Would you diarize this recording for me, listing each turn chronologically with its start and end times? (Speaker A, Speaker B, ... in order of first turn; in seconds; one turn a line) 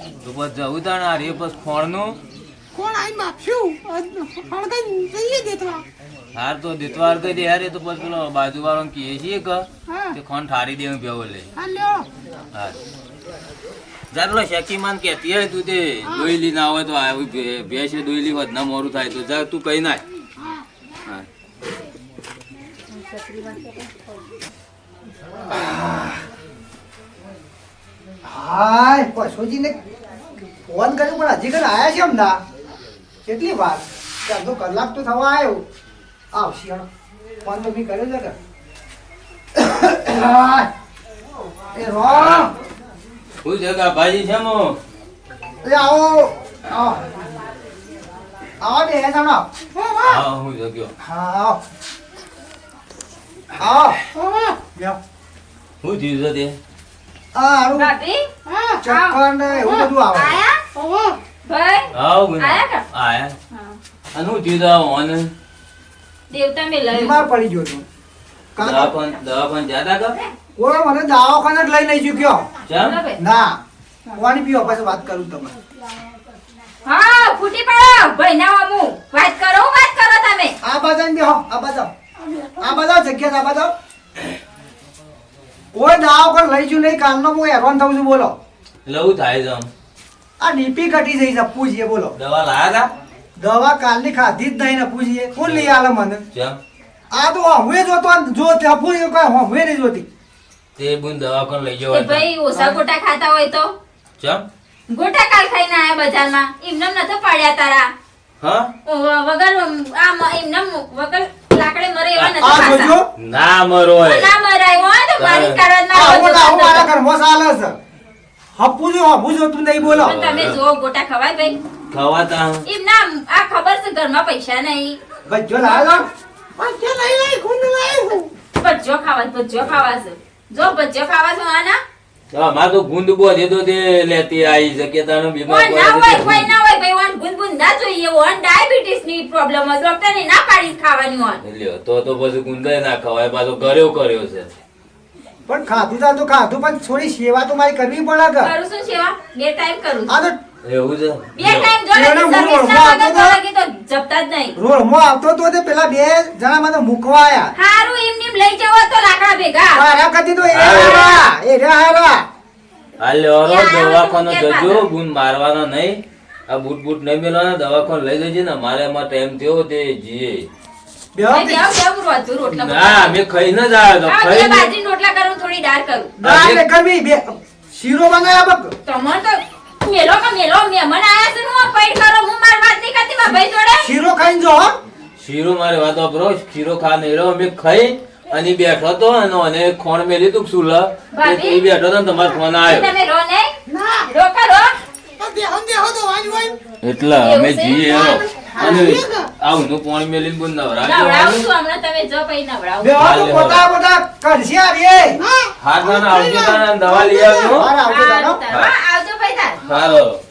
Speaker A: 0.2-2.2
Speaker B: 2.8-5.8
Speaker A: 6.3-11.5
Speaker B: 9.9-10.2
Speaker B: 11.6-12.1
Speaker A: 14.1-20.0
Speaker C: 23.0-23.9
Speaker D: 25.5-26.2
Speaker D: 28.2-29.8
Speaker D: 30.7-32.4
Speaker D: 33.2-35.6
Speaker D: 36.3-36.9
Speaker D: 37.4-38.4
Speaker D: 39.5-40.7
Speaker D: 41.7-42.5
Speaker A: 42.1-42.5
Speaker A: 43.4-44.8
Speaker D: 45.6-47.0
Speaker D: 48.6-49.5
Speaker B: 49.7-50.2
Speaker A: 50.0-50.9
Speaker D: 51.0-51.6
Speaker D: 53.6-54.0
Speaker B: 54.1-54.6
Speaker A: 55.8-56.6
Speaker D: 57.3-57.9
Speaker C: 57.8-58.2
Speaker B: 58.5-58.8
Speaker D: 58.8-60.4
Speaker C: 58.9-60.6
Speaker B: 60.8-61.2
Speaker C: 61.5-62.8
Speaker A: 61.9-63.4
Speaker C: 63.5-63.8
Speaker A: 64.1-65.3
Speaker C: 66.3-67.2
Speaker D: 66.9-67.8
Speaker D: 68.6-68.9
Speaker A: 68.6-70.2
Speaker D: 70.6-72.5
Speaker A: 72.7-73.0
Speaker C: 72.8-73.2
Speaker D: 73.2-73.6
Speaker D: 74.1-75.5
Speaker C: 76.8-80.5
Speaker D: 80.6-81.9
Speaker D: 82.6-83.7
Speaker D: 85.7-88.3
Speaker A: 88.8-89.7
Speaker D: 90.4-92.2
Speaker A: 92.2-92.9
Speaker D: 93.4-96.3
Speaker A: 95.4-95.8
Speaker A: 96.3-96.6
Speaker D: 97.1-100.1
Speaker A: 100.8-102.3
Speaker C: 101.9-103.7
Speaker D: 102.5-102.8
Speaker A: 104.2-104.5
Speaker C: 104.9-107.9
Speaker A: 108.4-108.7
Speaker C: 108.9-113.0
Speaker A: 112.2-112.5
Speaker D: 112.4-113.1
Speaker A: 113.2-114.3
Speaker C: 114.0-116.9
Speaker A: 115.2-115.6
Speaker D: 115.9-117.8
Speaker D: 118.5-120.2
Speaker A: 119.8-120.6
Speaker C: 120.0-121.6
Speaker A: 121.9-122.6
Speaker C: 122.7-125.0
Speaker D: 125.3-126.1
Speaker C: 125.7-126.0
Speaker B: 126.6-128.3
Speaker C: 128.6-131.8
Speaker A: 132.3-136.5
Speaker C: 135.5-141.4
Speaker A: 141.4-144.5
Speaker D: 145.5-148.5
Speaker C: 148.4-150.2
Speaker D: 150.1-150.4
Speaker A: 150.6-151.7
Speaker C: 151.4-154.6
Speaker D: 151.9-153.4
Speaker D: 154.6-157.5
Speaker C: 157.6-159.8
Speaker D: 159.7-162.2
Speaker A: 160.5-161.0
Speaker C: 160.6-161.3
Speaker A: 163.0-170.5
Speaker C: 163.4-164.8
Speaker D: 171.2-171.7
Speaker C: 171.3-173.2
Speaker A: 172.5-174.7
Speaker C: 174.1-176.1
Speaker D: 176.2-178.7
Speaker A: 176.2-176.6
Speaker C: 178.9-183.9
Speaker D: 183.8-184.8
Speaker A: 185.2-192.9
Speaker C: 191.1-191.6
Speaker C: 192.6-193.6
Speaker B: 193.7-194.1
Speaker C: 194.1-194.7
Speaker B: 195.2-196.6
Speaker A: 196.8-201.5
Speaker C: 197.2-198.9
Speaker B: 197.9-199.3
Speaker C: 200.8-203.1
Speaker D: 202.8-205.2
Speaker A: 203.0-203.7
Speaker B: 205.2-205.5
Speaker A: 205.6-207.7
Speaker C: 206.9-209.9
Speaker D: 207.5-208.4
Speaker A: 209.7-210.2